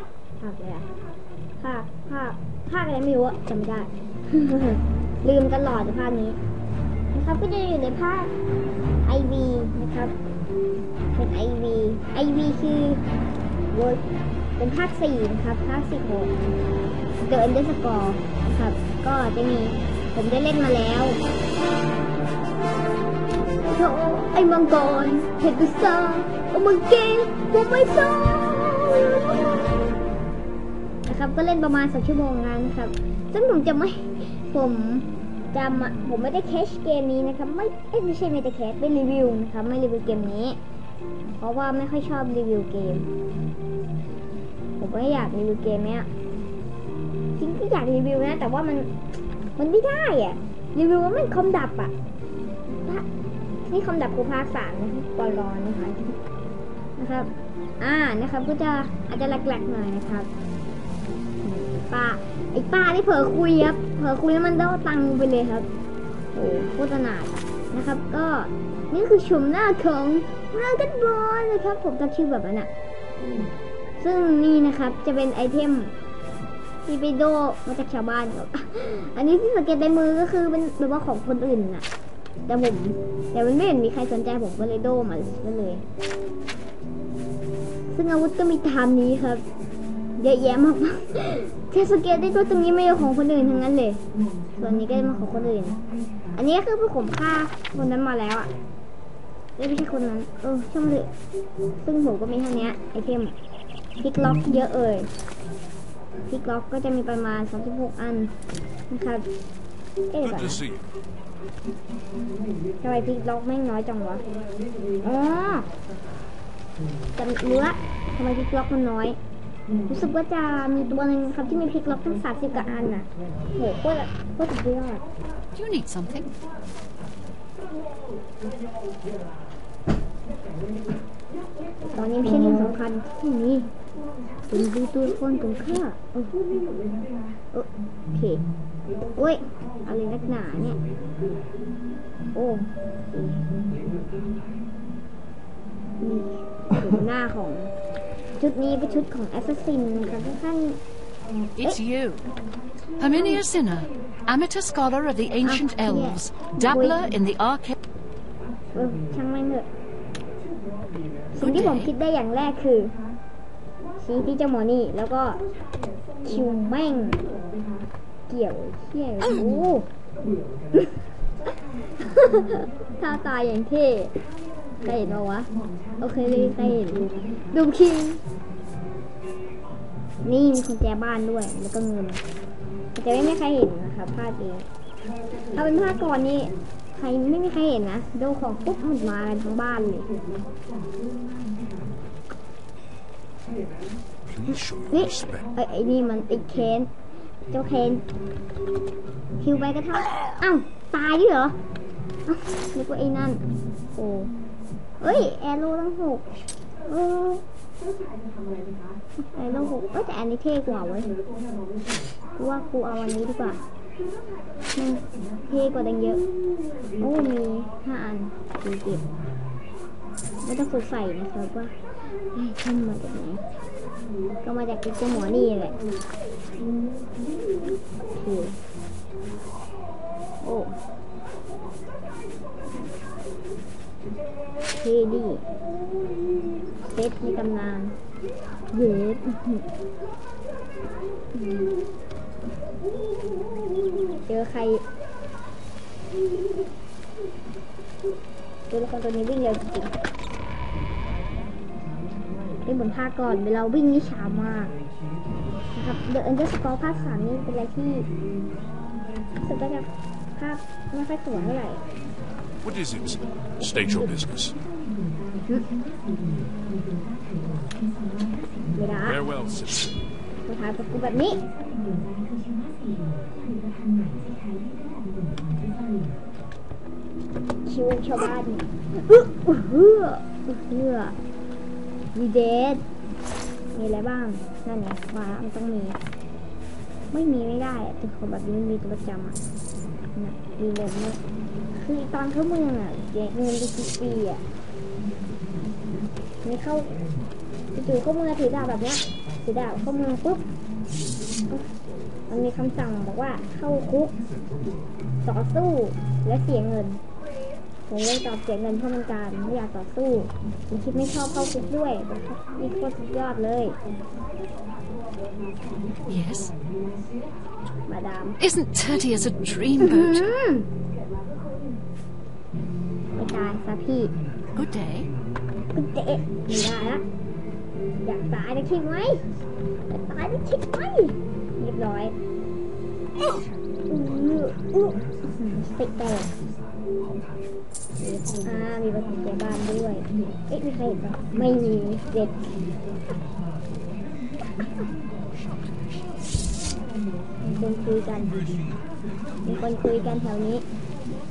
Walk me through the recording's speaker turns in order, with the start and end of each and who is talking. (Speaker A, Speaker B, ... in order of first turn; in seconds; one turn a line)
Speaker A: 0.4-0.9
Speaker A: 1.6-6.4
Speaker A: 7.1-8.3
Speaker A: 9.0-10.1
Speaker A: 11.1-13.0
Speaker A: 13.7-14.0
Speaker A: 14.6-16.3
Speaker A: 17.2-21.2
Speaker A: 23.7-29.7
Speaker A: 31.1-40.6
Speaker A: 41.4-43.1
Speaker A: 44.8-46.1
Speaker A: 47.4-48.9
Speaker A: 49.6-51.9
Speaker A: 53.6-56.1
Speaker A: 57.0-60.3
Speaker A: 61.4-65.7
Speaker A: 66.3-72.7
Speaker A: 74.0-75.9
Speaker A: 76.8-81.8
Speaker A: 82.5-85.8
Speaker A: 87.9-89.4
Speaker A: 90.2-94.0
Speaker A: 94.6-95.8
Speaker A: 96.3-98.5
Speaker A: 99.6-101.1
Speaker A: 101.8-103.3
Speaker A: 104.0-105.1
Speaker A: 106.3-108.3
Speaker A: 108.9-109.3
Speaker A: 110.1-110.7
Speaker B: 110.2-110.8
Speaker A: 112.8-114.2
Speaker A: 115.0-115.7
Speaker A: 117.2-119.2
Speaker A: 119.9-125.1
Speaker C: 125.5-126.3
Speaker A: 131.9-133.7
Speaker A: 134.4-136.4
Speaker A: 137.5-138.4
Speaker A: 139.2-140.8
Speaker A: 142.3-143.4
Speaker A: 146.0-147.7
Speaker A: 148.3-150.8
Speaker C: 151.6-152.3
Speaker C: 153.0-157.8
Speaker A: 155.4-157.1
Speaker A: 158.7-159.7
Speaker A: 161.3-163.0
Speaker C: 161.4-161.9
Speaker A: 164.0-165.4
Speaker A: 166.2-167.3
Speaker A: 168.3-169.9
Speaker A: 170.7-171.0
Speaker A: 172.0-174.1
Speaker A: 174.8-178.2
Speaker A: 180.2-182.2
Speaker A: 182.9-184.7
Speaker A: 185.5-190.1
Speaker B: 194.3-195.4
Speaker A: 194.9-196.9
Speaker A: 197.5-198.0
Speaker A: 199.4-201.6
Speaker A: 202.3-203.4
Speaker A: 203.9-204.3
Speaker A: 205.0-206.3
Speaker A: 206.9-207.4
Speaker A: 209.2-211.1
Speaker A: 212.4-213.6
Speaker A: 214.8-216.2
Speaker A: 217.0-219.1
Speaker A: 220.4-221.7
Speaker A: 222.3-223.4
Speaker A: 224.4-225.8
Speaker A: 228.1-228.6
Speaker A: 230.4-230.8
Speaker A: 234.8-235.4
Speaker A: 236.8-237.9
Speaker A: 238.7-239.7
Speaker A: 241.3-241.7
Speaker A: 244.2-244.8
Speaker A: 248.7-249.9
Speaker A: 252.6-254.7
Speaker A: 255.7-258.1
Speaker A: 259.4-261.8
Speaker B: 262.6-264.6
Speaker A: 263.7-264.1
Speaker A: 268.7-269.3
Speaker B: 269.1-269.9
Speaker A: 270.5-271.4
Speaker A: 277.6-281.1
Speaker A: 282.1-282.8
Speaker A: 283.7-286.0
Speaker A: 287.1-289.4
Speaker A: 290.1-291.2
Speaker A: 291.7-294.4
Speaker A: 296.4-297.0
Speaker A: 297.7-300.4
Speaker A: 302.3-304.2
Speaker A: 305.2-307.0
Speaker A: 307.9-313.8
Speaker C: 316.0-316.5
Speaker A: 317.9-318.4
Speaker C: 318.4-320.3
Speaker A: 319.8-320.7
Speaker A: 323.1-324.1
Speaker C: 324.5-325.1
Speaker A: 325.7-327.0
Speaker A: 328.0-329.3
Speaker A: 329.9-332.1
Speaker A: 333.9-336.4
Speaker A: 338.0-342.5
Speaker C: 345.4-346.4
Speaker A: 347.4-348.6
Speaker A: 349.4-350.6